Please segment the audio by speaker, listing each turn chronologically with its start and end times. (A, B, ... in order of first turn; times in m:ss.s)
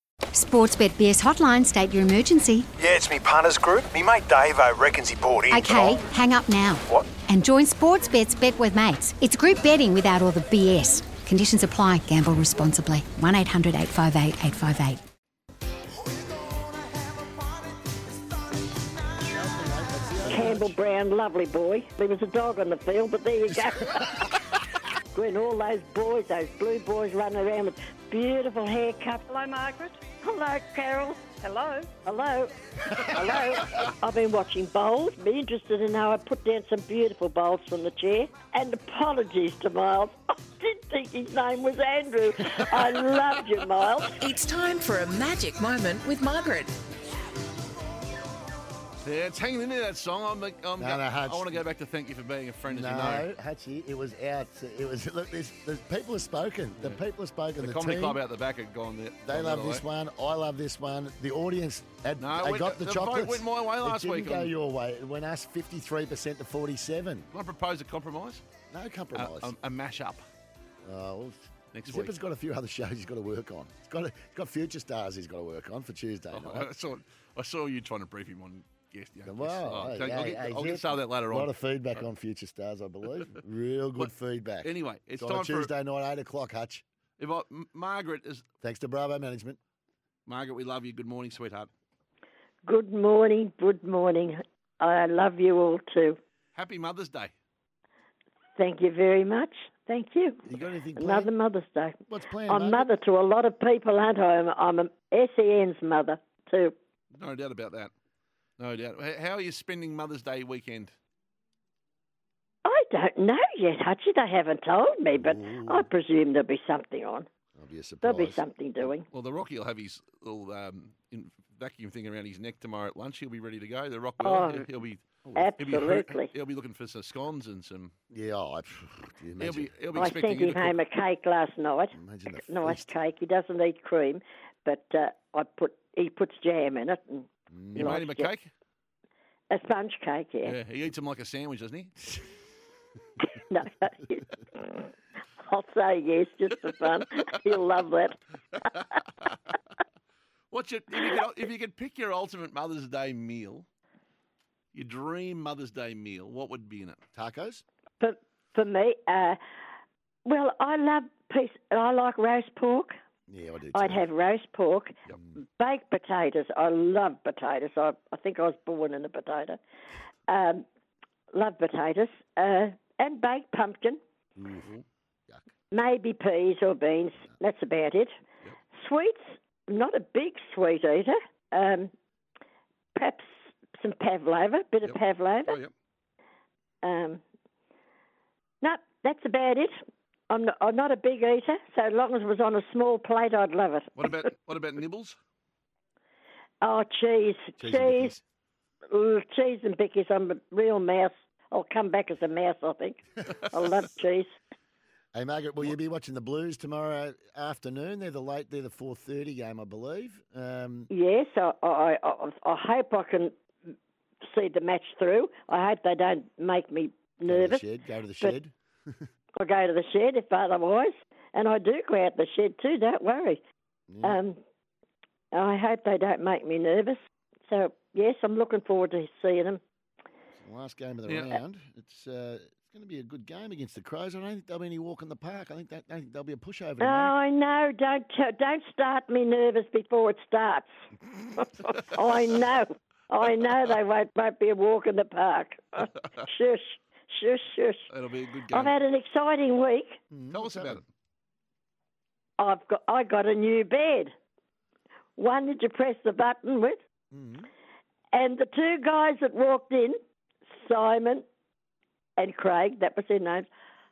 0:00.3-0:02.7 A
0:02.8-0:06.0 B
0:05.5-0:15.0 A
0:19.3-0:20.8 C
0:20.2-0:24.3 D
0:23.9-0:24.2 C
0:25.1-0:29.5 D
0:30.2-0:44.2 D
0:44.2-0:46.7 E
0:49.0-0:53.3 F
0:50.8-0:51.6 C
0:52.7-0:58.2 C
0:57.6-0:59.8 F
0:59.3-1:07.3 C
1:02.2-1:04.5 F
1:07.3-1:08.4 F
1:08.7-1:09.5 C
1:09.1-1:10.2 F
1:10.8-1:16.7 C
1:11.7-1:12.1 F
1:16.3-1:22.0 F
1:19.2-1:26.8 C
1:24.6-1:25.7 F
1:27.2-1:28.4 F
1:28.6-1:29.6 C
1:30.3-1:31.7 F
1:32.6-1:36.2 D
1:36.6-1:37.3 F
1:38.6-1:40.4 D
1:40.5-1:41.3 C
1:41.0-1:46.7 D
1:42.1-1:42.9 C
1:47.1-1:47.9 F
1:48.6-1:50.9 F
1:52.6-1:57.3 D
1:55.1-1:55.9 C
1:57.6-1:58.9 C
1:58.0-1:59.1 D
1:59.1-2:05.0 F
2:04.2-2:04.7 D
2:05.2-2:05.6 C
2:05.4-2:06.3 D
2:05.6-2:07.9 F
2:08.1-2:09.7 C
2:09.4-2:10.8 F
2:10.0-2:18.3 D
2:11.9-2:12.9 C
2:17.5-2:18.0 C
2:17.8-2:18.5 F
2:19.5-2:20.6 D
2:20.4-2:22.1 F
2:23.2-2:24.9 D
2:25.4-2:28.2 D
2:28.7-2:29.5 F
2:30.5-2:33.7 F
2:34.7-2:37.0 F
2:37.1-2:37.6 C
2:38.0-2:39.4 D
2:40.2-2:42.9 D
2:43.3-2:44.0 C
2:43.7-2:44.9 D
2:45.6-2:49.6 D
2:50.3-2:50.6 D
2:51.3-2:54.0 D
2:54.4-2:54.7 C
2:55.7-2:58.1 D
2:58.7-3:01.9 D
3:03.0-3:05.6 D
3:04.8-3:05.7 F
3:06.8-3:07.2 D
3:08.6-3:09.7 D
3:10.3-3:14.1 D
3:14.0-3:15.2 F
3:16.6-3:18.2 D
3:17.6-3:18.2 C
3:18.9-3:24.3 D
3:25.1-3:30.9 C
3:30.9-3:33.4 D
3:34.3-3:37.6 D
3:37.2-3:39.0 C
3:39.4-3:43.4 D
3:43.9-3:44.2 C
3:44.0-3:44.4 D
3:45.3-3:49.6 D
3:50.3-3:57.2 C
3:51.1-3:51.4 F
3:56.8-4:00.7 D
4:01.4-4:07.9 D
4:07.9-4:08.8 F
4:08.5-4:10.0 D
4:10.1-4:10.8 C
4:10.3-4:10.9 F
4:12.4-4:14.1 D
4:15.2-4:16.8 D
4:17.1-4:17.5 C
4:18.1-4:20.0 D
4:20.5-4:21.2 D
4:22.2-4:23.5 D